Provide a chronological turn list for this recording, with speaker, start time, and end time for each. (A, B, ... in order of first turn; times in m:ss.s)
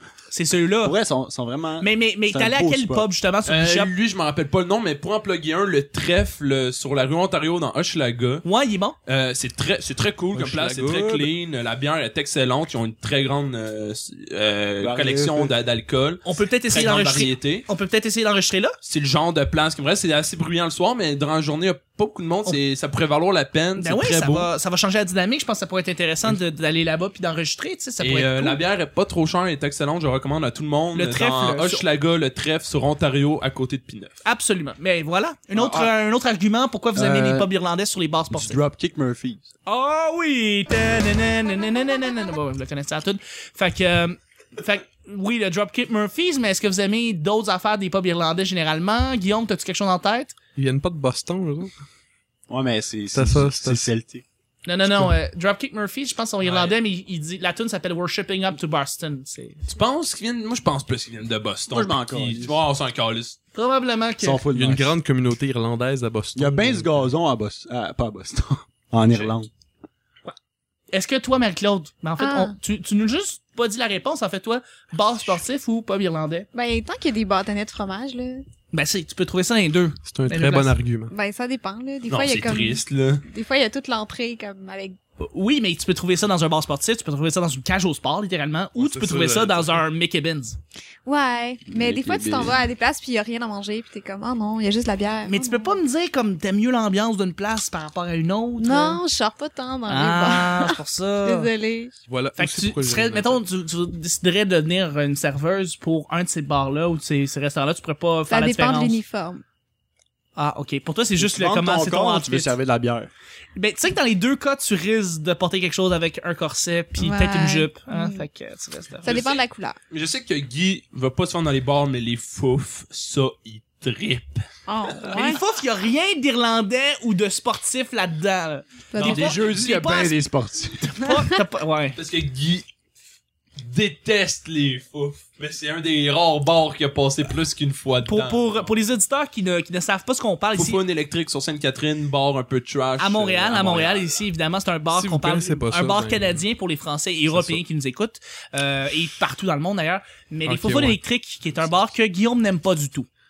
0:00.3-0:01.0 A
0:00.8-0:03.1 B
0:01.8-0:03.9 A
0:03.5-0:08.4 C
0:08.4-0:09.0 A
0:09.1-0:17.7 C
0:10.4-0:11.3 D
0:14.8-0:15.5 B
0:16.2-0:18.8 A
0:18.8-0:24.5 C
0:23.8-0:28.6 A
0:28.0-0:34.2 C
0:30.9-0:31.8 A
0:34.2-0:38.6 A
0:35.6-0:35.9 B
0:36.9-0:37.5 B
0:38.3-0:39.4 B
0:39.7-0:50.4 A
0:50.6-0:51.7 D
0:52.5-0:54.2 B
0:53.1-0:53.9 D
0:54.6-0:59.7 A
0:56.4-0:56.8 C
0:59.7-1:03.4 C
1:01.7-1:02.6 B
1:03.5-1:04.4 A
1:04.2-1:05.0 B
1:04.5-1:07.1 D
1:06.4-1:09.5 B
1:10.9-1:16.5 A
1:12.2-1:12.6 E
1:16.5-1:18.4 E
1:18.7-1:20.8 A
1:20.1-1:21.1 D
1:21.1-1:25.0 E
1:22.1-1:23.2 C
1:25.2-1:30.6 A
1:28.8-1:29.8 D
1:31.0-1:35.8 E
1:31.7-1:32.6 B
1:35.3-1:39.0 A
1:38.6-1:41.9 E
1:39.9-1:41.5 A
1:42.1-1:43.4 D
1:42.4-1:49.0 A
1:48.3-1:49.4 E
1:50.4-1:52.5 A
1:51.2-1:53.1 B
1:53.6-1:59.2 A
1:57.0-1:58.2 E
1:59.0-1:59.8 E
1:59.0-1:59.4 C
1:59.9-2:04.4 C
2:04.7-2:05.4 E
2:05.0-2:10.2 A
2:08.9-2:09.2 E
2:08.9-2:09.8 C
2:09.0-2:11.0 B
2:10.8-2:12.0 A
2:11.9-2:12.7 C
2:13.6-2:18.8 C
2:18.1-2:20.8 A
2:20.6-2:24.2 C
2:23.0-2:33.1 A
2:24.9-2:26.4 D
2:27.3-2:27.6 D
2:30.4-2:31.0 D